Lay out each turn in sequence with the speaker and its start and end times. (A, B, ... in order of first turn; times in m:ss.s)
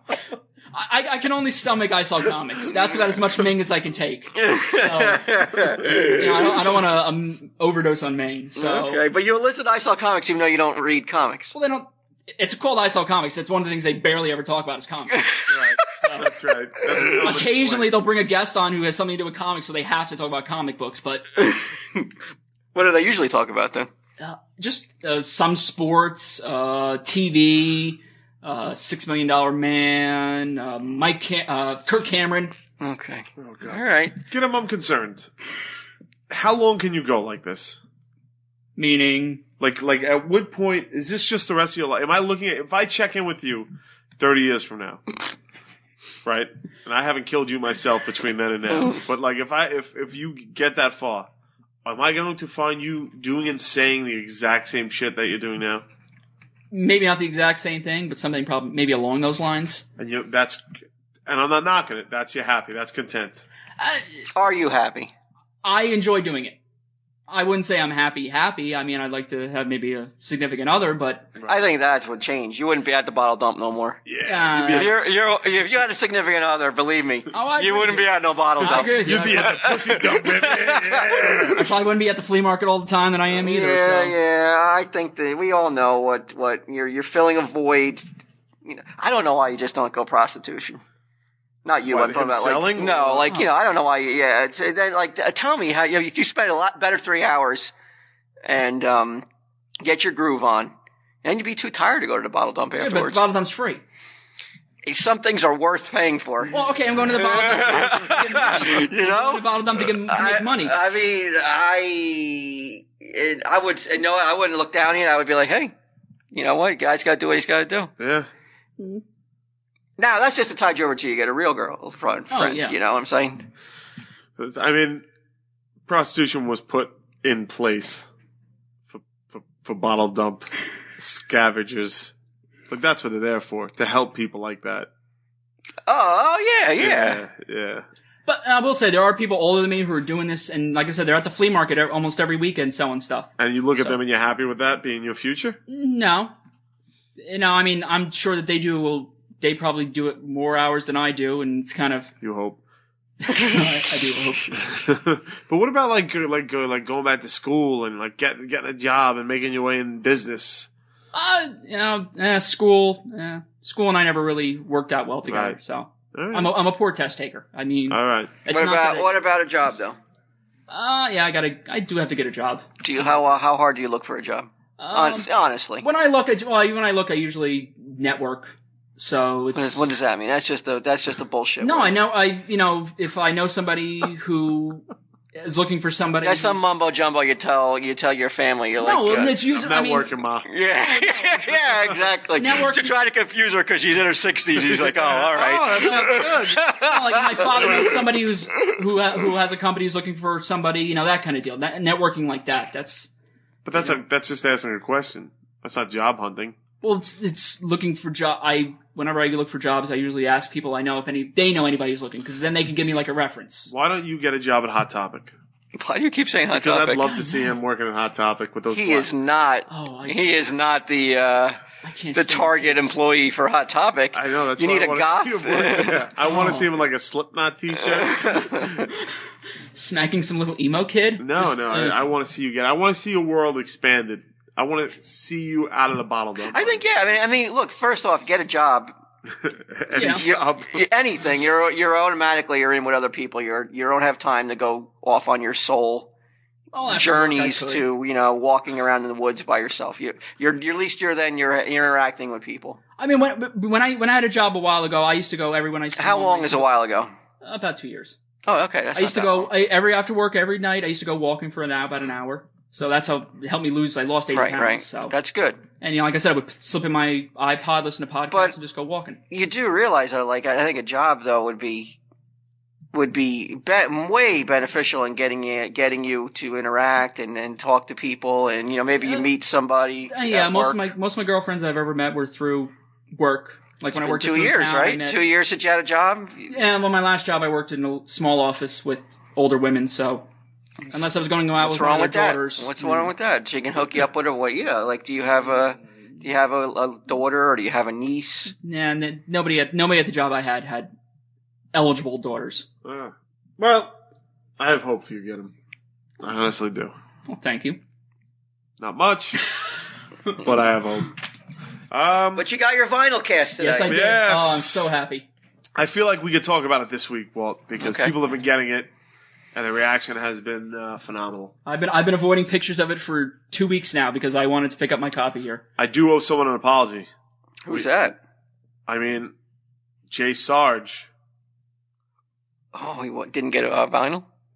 0:00.7-0:05.3 A
0:04.4-0:06.6 B
0:06.1-0:09.0 A
0:08.6-0:11.5 B
0:11.5-0:15.3 A
0:15.1-0:15.4 B
0:15.5-0:18.0 C
0:16.0-0:16.3 A
0:16.9-0:17.4 B
0:17.2-0:21.3 A
0:21.4-0:22.1 B
0:22.7-0:23.9 B
0:24.2-0:32.5 A
0:32.8-0:34.2 B
0:33.4-0:35.3 C
0:36.3-0:37.8 C
0:38.8-0:39.4 A
0:39.6-0:45.2 C
0:46.2-0:51.3 C
0:51.8-0:55.8 C
0:56.7-0:59.8 A
1:00.0-1:00.6 C
1:01.2-1:03.4 C
1:03.8-1:04.3 A
1:04.3-1:05.1 B
1:05.6-1:06.6 A
1:07.3-1:11.3 A
1:11.4-1:14.0 B
1:14.0-1:14.9 C
1:14.2-1:14.9 A
1:14.7-1:21.7 B
1:17.3-1:19.5 A
1:18.6-1:21.7 C
1:21.5-1:24.1 A
1:23.3-1:28.0 B
1:28.6-1:30.8 B
1:31.6-1:37.7 B
1:31.9-1:33.3 C
1:38.4-1:39.2 B
1:39.8-1:40.7 B
1:41.2-1:43.2 B
1:42.8-1:43.8 A
1:44.8-1:46.5 B
1:46.5-1:50.8 A
1:47.1-1:49.5 B
1:50.1-1:55.7 B
1:56.3-1:57.9 B
1:58.0-1:58.3 C
2:00.0-2:03.4 B
2:02.3-2:02.8 A
2:04.4-2:05.0 C
2:05.8-2:08.1 C
2:08.9-2:12.1 C
2:12.7-2:14.9 C
2:15.9-2:17.2 B
2:16.8-2:17.8 C
2:18.2-2:24.0 A
2:23.4-2:25.6 C
2:25.7-2:26.3 A
2:27.2-2:32.1 A
2:32.2-2:32.6 C
2:33.2-2:34.7 A
2:34.7-2:40.7 C
2:41.1-2:49.2 A
2:45.3-2:45.6 C
2:46.1-2:46.5 C
2:47.9-2:48.4 C
2:48.5-2:50.0 B
2:50.7-2:52.6 A
2:52.8-2:55.8 B
2:54.8-2:55.3 A
2:55.8-2:59.9 A
2:59.5-3:01.9 B
3:01.6-3:04.8 A
3:05.4-3:06.6 A
3:06.2-3:09.4 B
3:08.8-3:10.1 A
3:09.5-3:10.5 C
3:10.5-3:18.0 B
3:10.8-3:11.6 A
3:12.4-3:12.9 A
3:14.6-3:16.6 C
3:16.7-3:23.1 A
3:23.6-3:26.6 C
3:26.8-3:33.7 A
3:33.7-3:35.3 C
3:35.8-3:37.1 B
3:36.5-3:39.1 C
3:37.1-3:37.4 A
3:38.7-3:41.6 B
3:39.7-3:40.2 A
3:41.8-3:42.9 A
3:42.1-3:46.1 B
3:44.1-3:48.9 C
3:46.3-3:46.7 A
3:47.9-3:48.8 B
3:49.7-3:52.0 A
3:51.2-3:56.8 C
3:56.5-3:58.9 B
3:59.4-4:00.8 C
3:59.9-4:00.2 A
4:00.0-4:06.1 B
4:06.7-4:07.8 A
4:06.9-4:12.8 B
4:13.0-4:16.7 A
4:16.0-4:17.1 B
4:17.4-4:18.1 A
4:18.4-4:19.5 B
4:18.9-4:25.1 A
4:24.3-4:25.6 B
4:25.8-4:29.2 A
4:29.3-4:32.0 B
4:32.9-4:40.8 B
4:39.0-4:39.3 A
4:40.1-4:45.2 A
4:43.9-4:46.5 B
4:46.5-4:50.2 A
4:50.9-4:53.1 A
4:51.6-4:58.5 B
4:58.5-5:00.9 A
5:01.7-5:02.6 A
5:02.8-5:04.0 C
5:04.6-5:05.5 C
5:06.2-5:06.9 C
5:07.3-5:07.8 A
5:08.8-5:09.6 C
5:10.3-5:11.1 C
5:11.9-5:12.4 C
5:12.4-5:14.0 B
5:13.6-5:15.3 A
5:13.8-5:14.9 C
5:15.8-5:18.9 C
5:17.8-5:18.1 B
5:19.5-5:21.5 C
5:21.6-5:25.6 A
5:25.8-5:27.1 C
5:27.6-5:28.2 B
5:28.9-5:29.3 C
5:30.1-5:31.1 C
5:32.7-5:34.2 B